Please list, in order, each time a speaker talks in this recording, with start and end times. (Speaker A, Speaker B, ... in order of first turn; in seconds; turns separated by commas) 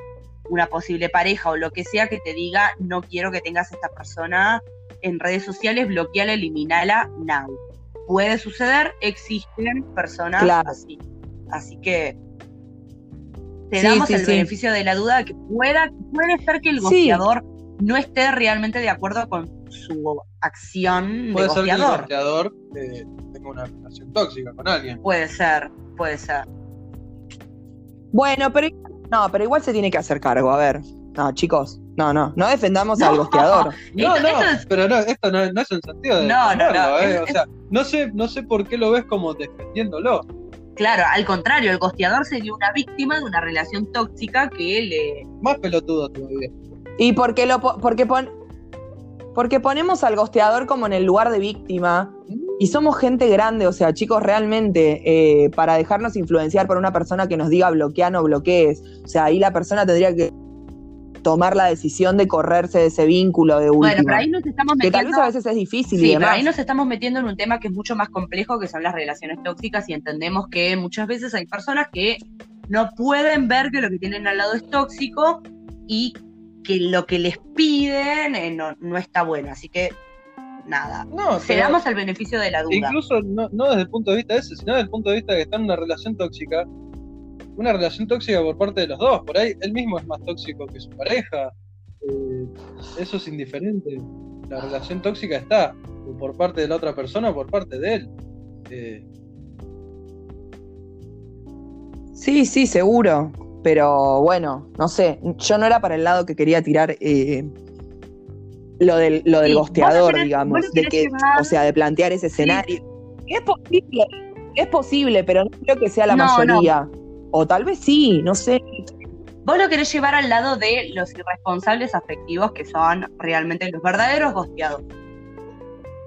Speaker A: 0.5-12.2, Speaker B: 10.4-10.8, Speaker A: 13.7-22.1, Speaker B: 13.8-14.5, Speaker B: 16.8-17.2, Speaker C: 21.3-25.0, Speaker A: 25.0-26.5, Speaker B: 28.1-33.8, Speaker A: 33.0-34.6, Speaker C: 33.9-40.2, Speaker A: 36.2-37.4, Speaker A: 40.8-45.2, Speaker C: 45.4-46.5, Speaker B: 47.0-48.3, Speaker B: 49.3-60.3, Speaker C: 52.3-52.6, Speaker B: 61.2-64.2, Speaker A: 63.8-65.3, Speaker B: 64.8-66.5, Speaker A: 65.9-80.0, Speaker A: 80.7-83.0, Speaker C: 81.1-81.8, Speaker C: 82.7-86.7, Speaker C: 87.5-98.1, Speaker C: 98.7-99.0, Speaker B: 102.2-107.5, Speaker B: 108.8-118.6, Speaker A: 109.4-111.5, Speaker A: 112.3-112.6, Speaker A: 116.1-116.7, Speaker A: 119.4-124.8